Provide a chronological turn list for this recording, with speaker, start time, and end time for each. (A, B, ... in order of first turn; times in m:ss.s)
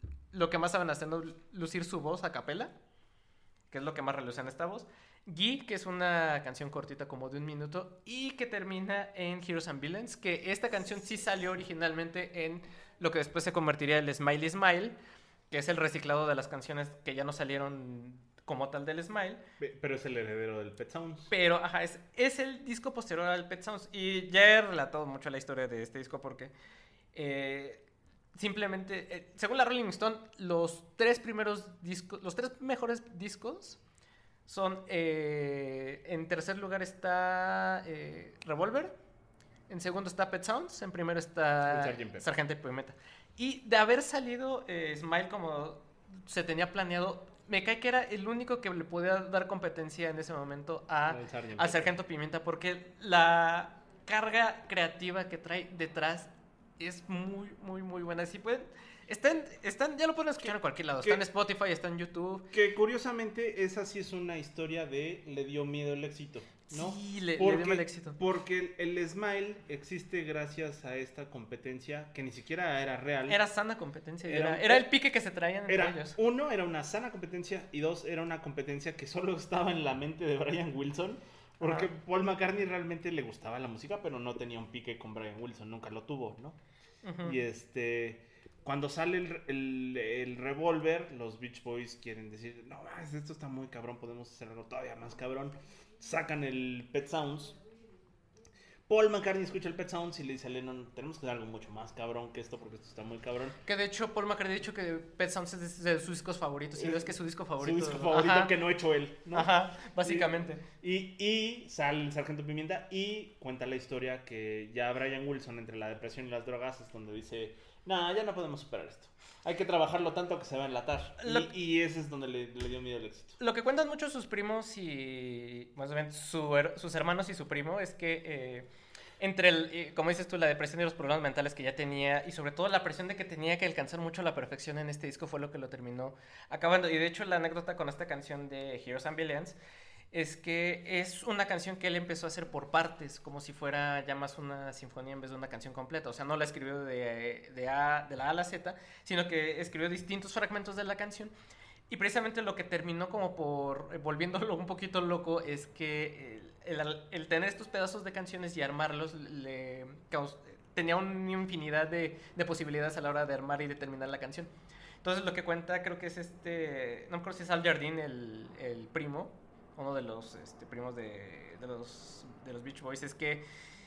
0:00.3-0:02.7 A
0:03.7-0:15.0 A
0:15.5-0:19.4 A
0:19.6-0:21.3 B
0:21.3-0:26.5 A
0:27.1-0:33.8 A
0:34.5-0:39.0 A
0:39.7-1:02.5 A
0:41.6-0:42.2 B
0:51.0-0:51.9 B
1:02.5-1:13.4 B
1:06.7-1:08.2 A
1:13.3-1:16.2 A
1:14.2-1:14.9 B
1:15.7-1:26.6 B
1:21.6-1:21.9 A
1:27.0-1:27.4 A
1:27.2-1:37.6 B
1:38.9-1:43.6 B
1:43.6-1:48.5 A
1:46.8-2:03.4 B
1:49.3-1:50.6 A
2:01.2-2:01.5 A
2:03.4-2:08.7 A
2:09.2-2:19.6 A
2:20.1-2:31.3 A
2:31.9-2:44.5 A
2:45.0-2:53.4 A